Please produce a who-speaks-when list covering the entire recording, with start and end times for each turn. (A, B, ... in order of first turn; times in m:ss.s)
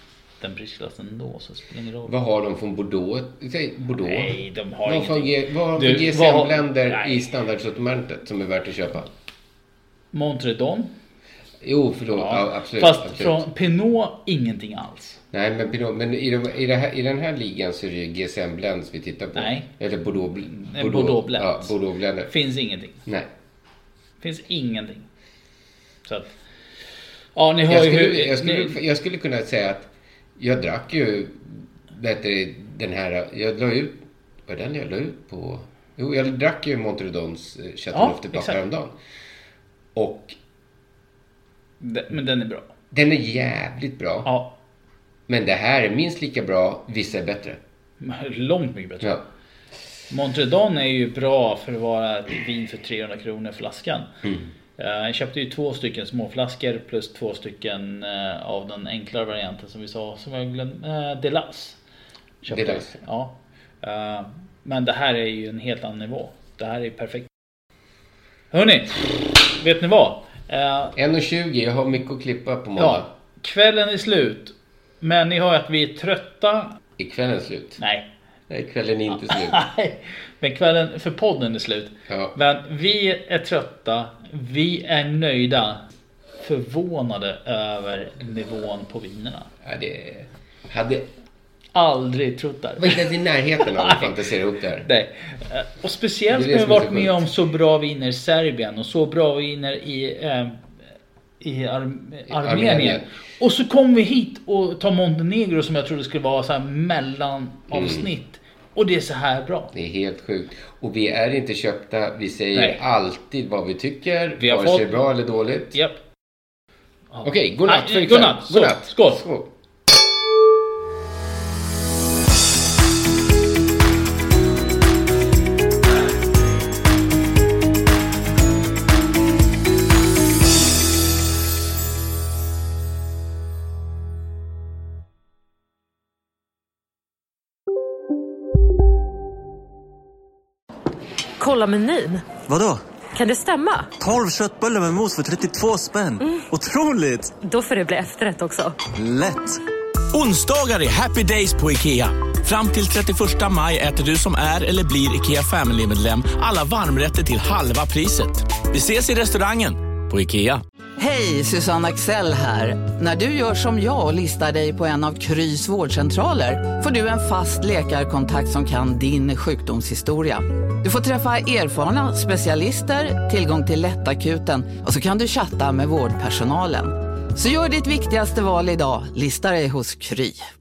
0:00.4-0:02.1 A
0:02.0-0:09.1 B
0:04.0-0:07.3 A
0:10.1-0:10.9 A
0:11.6-0:13.5 B
0:12.1-0:15.2 A
0:15.3-0:22.3 B
0:19.4-0:19.7 A
0:20.5-0:21.7 A
0:22.2-0:23.0 A
0:24.2-0:25.1 A
0:26.0-0:26.3 A
0:27.4-0:28.8 A
0:27.7-0:39.0 B
0:37.9-0:38.6 A
0:39.9-0:40.4 B
0:41.8-0:42.7 A
0:42.9-0:44.4 B
0:44.2-0:44.5 A
0:45.3-0:47.6 B
0:48.0-0:49.2 A
0:50.1-0:54.1 A
0:54.8-1:01.8 A
1:02.4-1:07.3 A
1:02.5-1:03.0 B
1:08.5-1:10.9 A
1:10.9-1:13.1 B
1:12.8-1:16.8 A
1:17.0-1:17.8 B
1:17.8-1:18.1 A
1:18.5-1:19.6 B
1:19.1-1:25.8 A
1:22.1-1:22.4 B
1:26.4-1:29.5 A
1:29.6-1:31.1 B
1:31.7-1:34.1 A
1:32.8-1:34.9 B
1:34.8-1:40.6 A
1:36.3-1:37.2 B
1:41.4-1:49.7 A
1:42.3-1:43.1 B
1:47.7-1:48.1 B
1:49.7-1:55.8 B
1:52.5-1:52.8 A
1:54.4-1:55.0 A
1:55.7-1:56.0 A
1:57.1-1:59.2 A
1:57.2-1:59.5 B
2:21.4-2:22.4 C
2:22.4-2:22.8 D
2:23.1-2:23.9 C
2:24.0-2:27.4 D
2:27.4-2:28.8 C
2:28.9-2:29.6 D
2:30.1-2:40.6 E
2:41.0-3:00.4 F